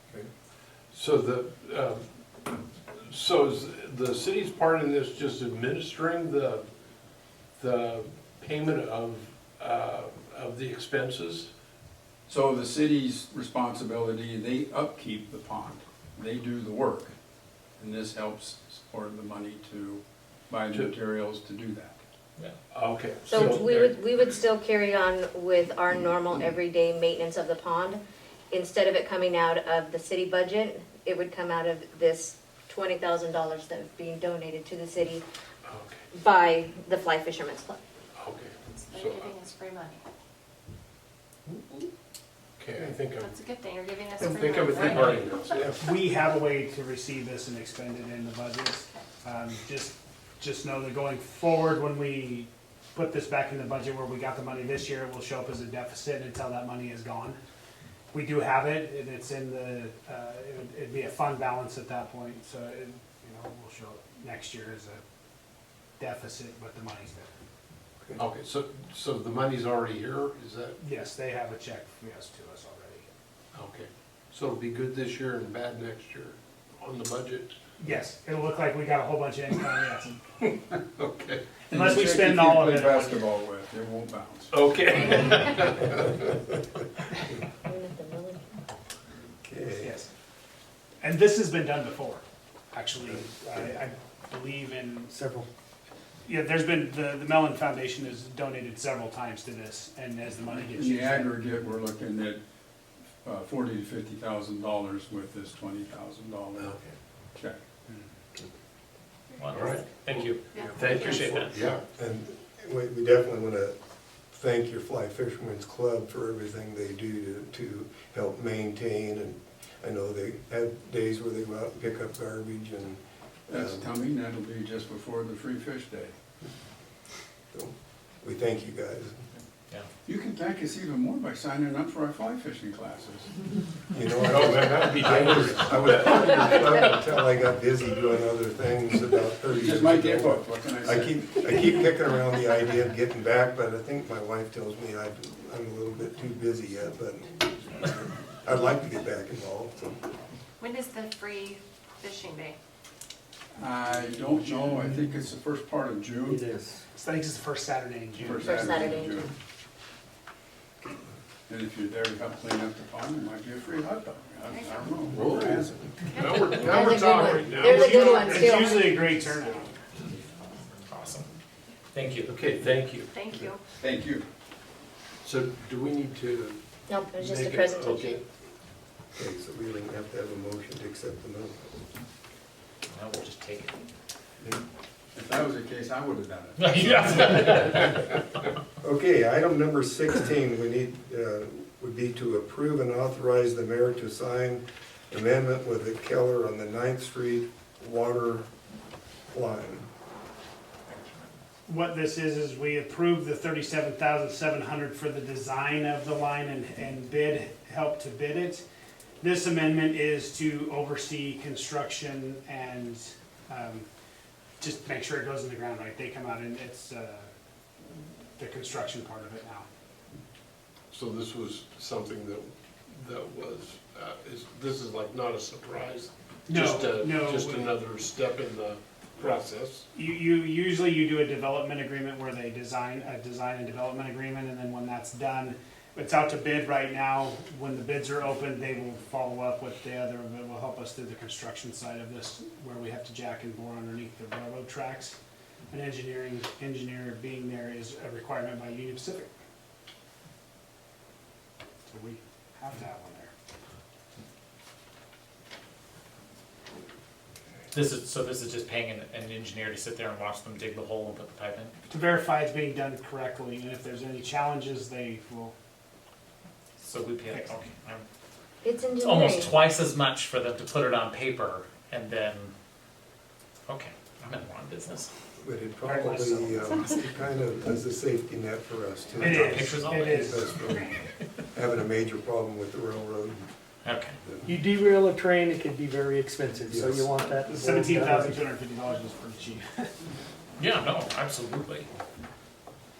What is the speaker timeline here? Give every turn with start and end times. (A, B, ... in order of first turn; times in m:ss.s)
0:00.9-0:02.0 A
0:03.0-0:06.6 A
0:07.6-0:11.5 A
0:12.3-0:17.1 B
0:17.8-0:22.0 B
0:22.7-0:24.2 A
0:23.3-0:35.2 C
0:35.6-0:36.0 A
0:36.1-0:37.8 C
0:38.2-0:39.4 A
0:38.7-0:40.0 D
0:42.6-0:43.3 A
0:43.2-0:45.7 D
0:44.2-0:45.8 A
0:44.2-0:45.1 E
0:45.8-0:57.4 E
0:58.1-1:05.0 E
1:06.0-1:07.3 E
1:08.2-1:10.8 A
1:10.8-1:13.0 E
1:13.5-1:17.5 A
1:17.8-1:20.1 E
1:20.4-1:21.4 A
1:21.7-1:23.3 E
1:21.7-1:25.1 B
1:24.5-1:26.2 A
1:27.6-1:28.4 C
1:29.4-1:30.0 F
1:29.8-1:30.1 E
1:31.0-1:35.1 E
1:35.1-1:35.5 G
1:36.2-1:41.3 E
1:40.7-1:42.4 B
1:43.2-1:46.8 B
1:46.6-1:46.9 A
1:47.4-1:47.6 B
1:49.4-1:50.4 H
1:49.5-1:51.8 A
1:50.5-1:51.3 D
1:50.9-1:51.6 H
1:51.9-1:53.8 F
1:54.3-2:03.8 F
2:03.5-2:06.2 B
2:07.5-2:09.2 F
2:10.0-2:13.3 B
2:13.9-2:30.1 F
2:14.1-2:16.9 A
2:19.5-2:21.3 B
2:30.6-2:32.6 D
2:33.6-2:36.5 B
2:36.2-2:36.8 G
2:36.9-2:38.6 E
2:38.2-2:39.3 B
2:38.4-2:39.2 C
2:41.5-2:46.1 B
2:44.5-2:44.8 D
2:45.1-2:48.5 A
2:46.1-2:46.6 D
2:46.5-2:49.0 C
2:47.4-2:49.7 E
2:50.6-2:51.3 H
2:51.9-2:52.3 H
2:52.3-2:53.1 A
2:53.1-2:53.6 D
2:53.8-2:54.2 B
2:55.2-2:56.6 A
2:56.9-2:58.2 C
2:57.1-2:58.2 A
2:59.1-3:01.7 F
3:02.9-3:03.8 H
3:05.1-3:07.3 B
3:06.6-3:07.9 H
3:06.9-3:07.7 A
3:08.8-3:18.5 F
3:19.3-3:19.9 F
3:20.9-3:21.3 H
3:21.7-3:28.6 E
3:29.2-3:33.8 E
3:34.6-3:37.3 E
3:37.9-3:39.7 E
3:40.9-3:49.8 A
3:46.5-3:47.7 E
3:49.9-4:05.2 E
4:05.7-4:09.3 E
4:11.9-4:13.3 E
4:17.7-4:21.7 H
4:21.9-4:25.5 E
4:26.8-4:28.0 H
4:27.3-4:27.5 E
4:28.6-4:29.6 C
4:29.0-4:32.5 H
4:33.7-4:35.1 H
4:35.4-4:41.0 F
4:35.8-4:36.8 E
4:39.2-4:40.9 H
4:39.2-4:40.4 E
4:40.6-4:41.0 D
4:41.5-4:43.4 F
4:43.8-4:44.2 H
4:44.4-4:48.4 G
4:46.7-4:47.1 F
4:47.4-4:49.9 E
4:50.6-4:51.9 H